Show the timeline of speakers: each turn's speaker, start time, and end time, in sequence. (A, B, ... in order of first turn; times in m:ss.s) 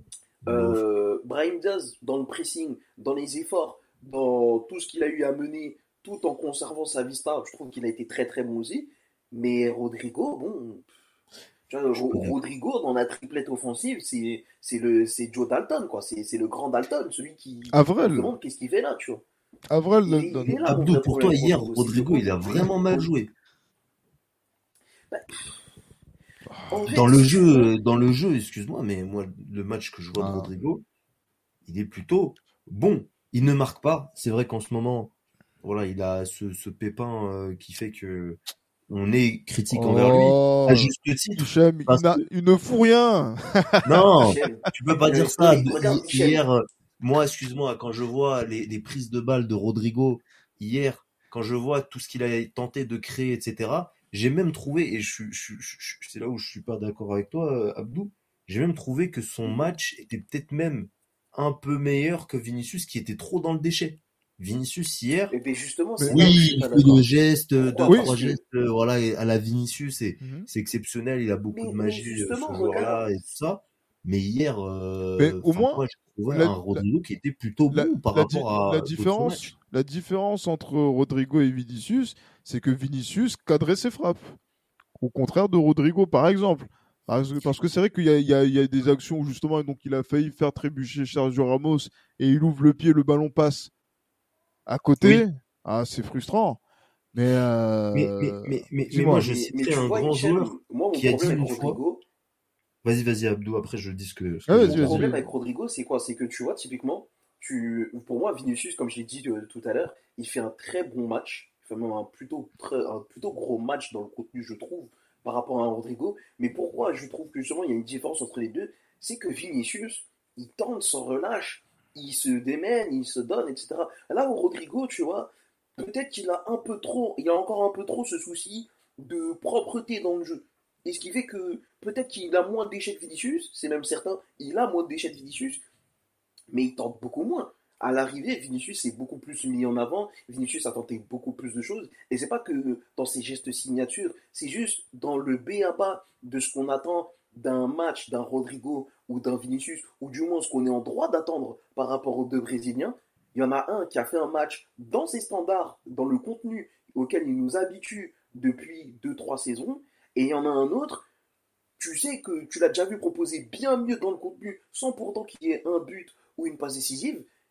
0:00.4-0:00.8 A
0:00.5-0:10.9 B
0:11.7-0:19.2 B
0:17.7-0:18.3 C
0:19.7-0:20.7 C
0:20.0-0:23.1 B
0:20.6-0:23.3 A
0:25.1-0:25.6 B
0:26.7-0:27.7 B
0:26.9-0:30.8 A
0:30.2-0:30.5 C
0:31.6-0:42.2 A
0:39.7-0:44.1 C
0:43.8-1:05.3 A
0:44.2-0:46.4 B
1:05.3-1:07.0 B
1:06.0-1:06.4 C
1:06.1-1:19.5 A
1:07.6-1:08.4 B
1:10.2-1:10.5 C
1:11.5-1:13.1 B
1:15.2-1:16.8 C
1:17.7-1:24.4 C
1:25.0-1:33.7 C
1:34.7-1:36.6 C
1:35.0-1:35.2 A
1:37.1-1:39.2 C
1:37.9-1:41.8 A
1:38.9-1:42.0 B
1:42.8-1:45.1 A
1:44.5-1:45.2 C
1:44.6-2:15.6 B
2:16.5-2:41.0 B
2:41.8-2:47.3 B